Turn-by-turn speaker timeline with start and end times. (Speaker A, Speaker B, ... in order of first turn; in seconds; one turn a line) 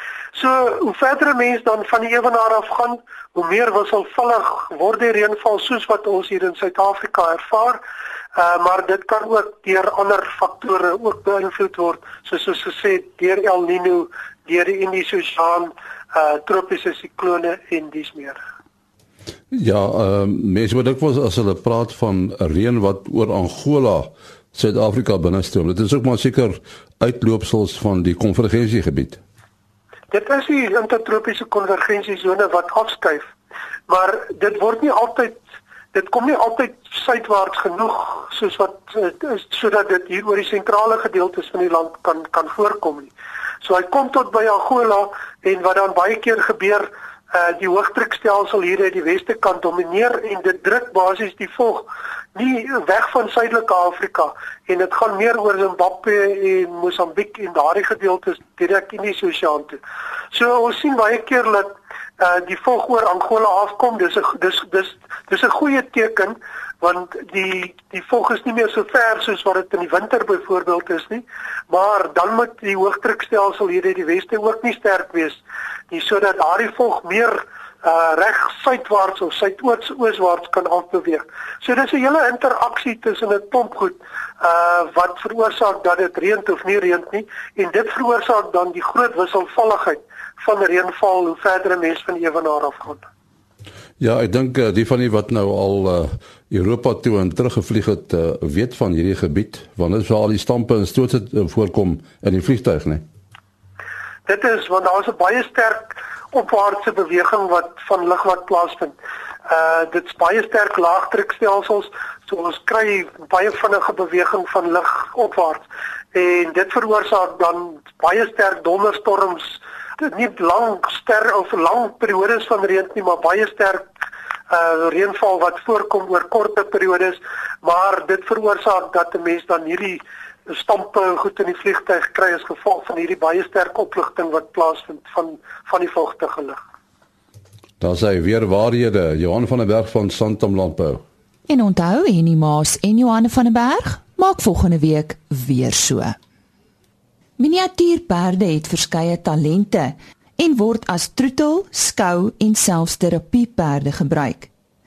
Speaker A: 0.3-7.8
Speaker A: 8.3-18.4
Speaker B: 19.5-29.2
Speaker A: 30.1-33.3
Speaker A: 33.9-35.4
Speaker A: 35.9-43.1
Speaker A: 43.6-59.8
Speaker A: 60.3-93.0
Speaker B: 94.0-103.0
Speaker A: 104.2-109.0
Speaker A: 109.5-123.8
Speaker A: 124.5-136.6
Speaker B: 137.8-141.0
Speaker C: 141.5-146.2
Speaker C: 147.4-154.5